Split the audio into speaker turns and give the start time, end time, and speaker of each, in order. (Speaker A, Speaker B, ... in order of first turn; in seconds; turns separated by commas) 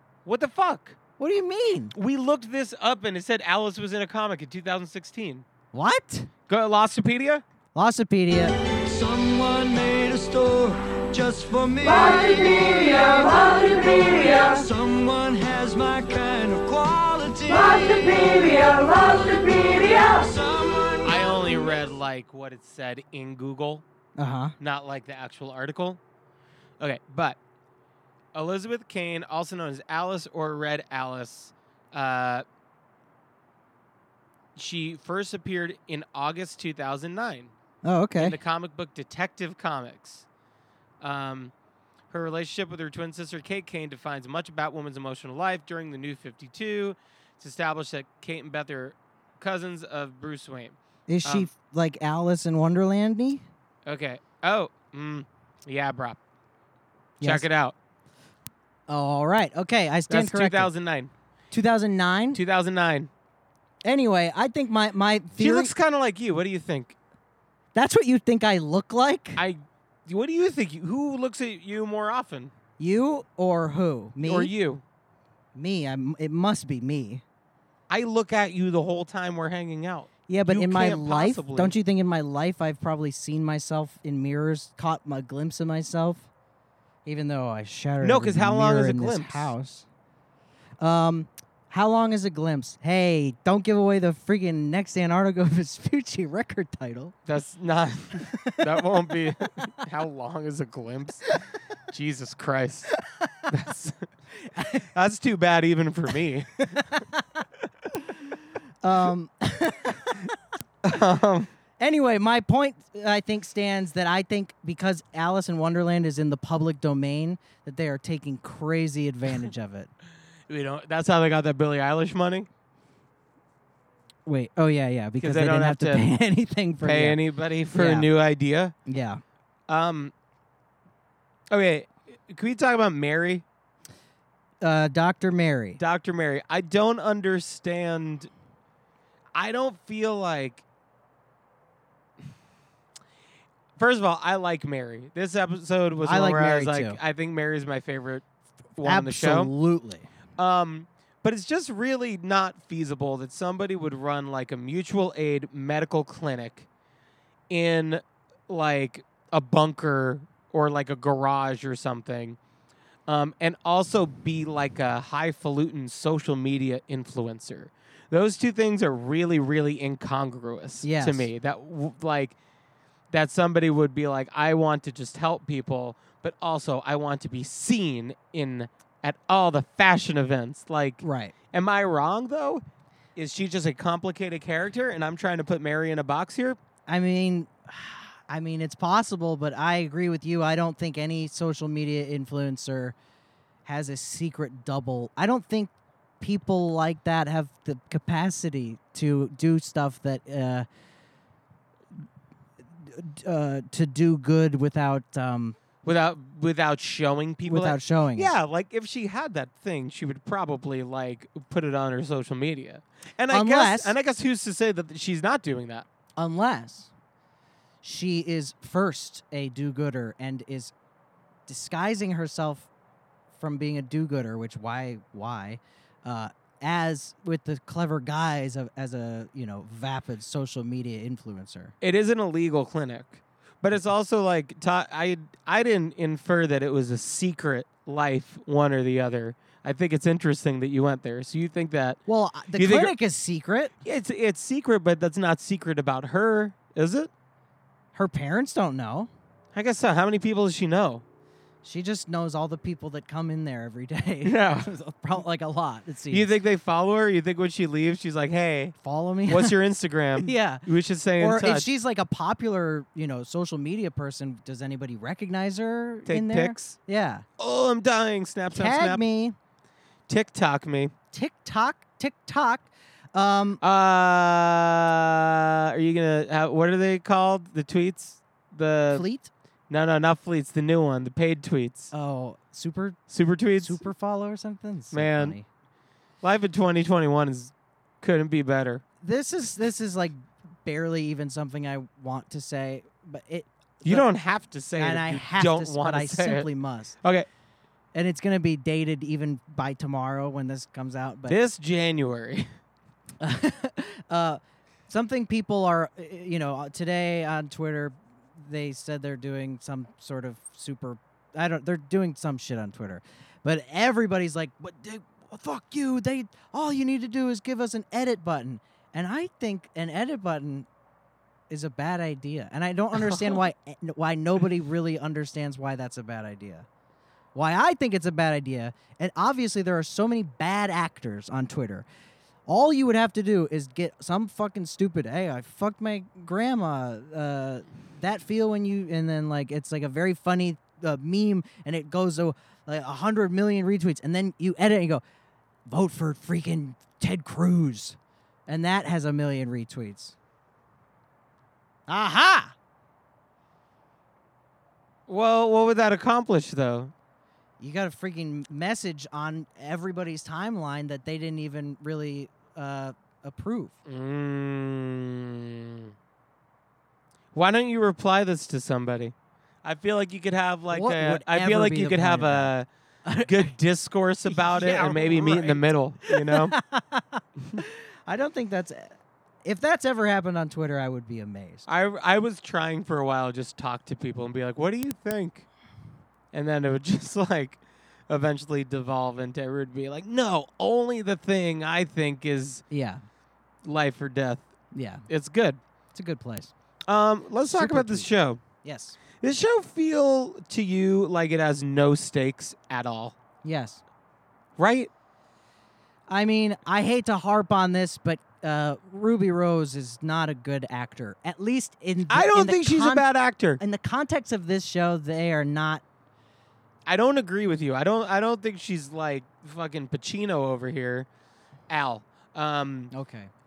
Speaker A: 0.3-1.0, Speaker B: 1.2-1.9, Speaker A: 1.9-5.5, Speaker B: 5.7-6.3, Speaker A: 6.5-7.4, Speaker B: 7.7-8.6, Speaker C: 8.9-21.0, Speaker A: 21.0-23.8, Speaker B: 24.2-24.6, Speaker A: 24.6-26.0, Speaker A: 26.8-27.4, Speaker A: 28.3-32.5, Speaker A: 34.6-37.5, Speaker B: 37.8-38.4, Speaker A: 38.2-40.3, Speaker A: 41.0-41.5, Speaker A: 42.1-51.5, Speaker B: 51.1-53.4, Speaker A: 53.9-56.2, Speaker B: 57.2-57.5, Speaker A: 57.2-57.8, Speaker B: 58.9-60.7, Speaker A: 60.1-61.1, Speaker B: 61.5-62.4, Speaker A: 62.3-63.1, Speaker B: 63.9-65.7, Speaker A: 65.4-67.0, Speaker B: 67.7-69.4, Speaker A: 69.4-72.5, Speaker B: 72.8-74.5, Speaker A: 74.2-74.8, Speaker B: 75.5-77.2, Speaker A: 77.9-81.8, Speaker B: 80.3-86.3, Speaker B: 87.0-89.9, Speaker A: 88.0-89.5, Speaker B: 90.8-97.1, Speaker A: 97.3-101.4, Speaker B: 98.3-98.9, Speaker A: 101.9-102.9, Speaker B: 103.2-103.5, Speaker A: 103.5-104.1, Speaker B: 104.5-104.9, Speaker A: 104.9-107.0, Speaker B: 106.7-107.2, Speaker B: 108.8-110.4, Speaker A: 110.8-111.5, Speaker B: 111.8-119.9, Speaker A: 120.5-122.5, Speaker B: 124.3-127.2, Speaker A: 125.2-126.1, Speaker A: 126.8-128.7, Speaker B: 127.7-128.1, Speaker B: 128.9-129.2, Speaker A: 129.7-130.1, Speaker A: 131.5-133.4, Speaker B: 134.6-135.8, Speaker A: 135.8-138.3, Speaker A: 139.3-140.6, Speaker A: 143.8-148.2, Speaker B: 146.0-147.0, Speaker A: 148.8-149.5, Speaker B: 148.8-150.1, Speaker A: 150.4-156.7, Speaker A: 157.5-162.4, Speaker A: 163.1-172.4, Speaker B: 170.8-171.3, Speaker A: 173.1-182.6, Speaker B: 181.0-181.3, Speaker A: 183.2-186.6, Speaker B: 186.9-192.9, Speaker B: 193.7-200.7, Speaker B: 202.8-205.6, Speaker A: 205.8-215.9, Speaker B: 207.5-208.3, Speaker B: 213.3-214.0, Speaker B: 216.2-216.9, Speaker B: 217.8-220.7, Speaker B: 221.5-222.7, Speaker B: 223.4-231.7, Speaker A: 231.8-242.0, Speaker B: 242.1-243.7, Speaker A: 242.6-242.9, Speaker A: 243.8-247.1, Speaker B: 247.9-249.1, Speaker A: 249.5-251.0, Speaker B: 251.6-256.3, Speaker A: 254.2-254.7, Speaker A: 256.1-258.8, Speaker B: 258.8-259.6, Speaker A: 259.3-261.7, Speaker B: 260.2-260.7, Speaker B: 261.2-267.2, Speaker A: 266.1-266.8, Speaker A: 267.4-269.0, Speaker B: 268.5-269.4, Speaker A: 270.1-270.9, Speaker B: 271.1-273.6, Speaker A: 273.6-279.1, Speaker B: 278.9-279.3, Speaker A: 279.7-281.9, Speaker B: 281.9-283.0, Speaker A: 283.1-283.8, Speaker B: 283.6-285.4, Speaker A: 284.9-285.4, Speaker A: 286.2-288.8, Speaker B: 289.0-294.1, Speaker A: 293.8-296.5, Speaker B: 294.8-297.0, Speaker A: 297.0-297.3, Speaker B: 297.9-301.4, Speaker A: 301.3-302.5, Speaker B: 303.2-320.7, Speaker B: 321.5-326.7, Speaker A: 323.0-323.4, Speaker B: 327.4-331.9, Speaker B: 332.5-345.0, Speaker B: 345.7-350.1, Speaker B: 351.9-352.5, Speaker A: 355.1-356.9, Speaker B: 357.6-363.8, Speaker A: 363.9-365.9, Speaker A: 367.3-372.7, Speaker B: 370.7-372.5, Speaker B: 373.1-373.5, Speaker A: 373.2-376.6, Speaker B: 374.3-381.7, Speaker A: 381.7-385.5, Speaker A: 386.3-392.6, Speaker B: 392.7-393.0, Speaker A: 393.6-394.5, Speaker B: 394.7-395.1, Speaker A: 395.1-395.6, Speaker B: 395.9-396.5, Speaker A: 396.9-398.4, Speaker B: 397.5-398.1, Speaker B: 398.6-399.0, Speaker A: 399.2-403.1, Speaker B: 403.4-403.8, Speaker A: 404.6-404.9, Speaker B: 406.1-413.1, Speaker A: 412.1-413.6, Speaker B: 413.6-415.8, Speaker A: 416.9-421.1, Speaker A: 421.7-422.9, Speaker B: 422.9-423.3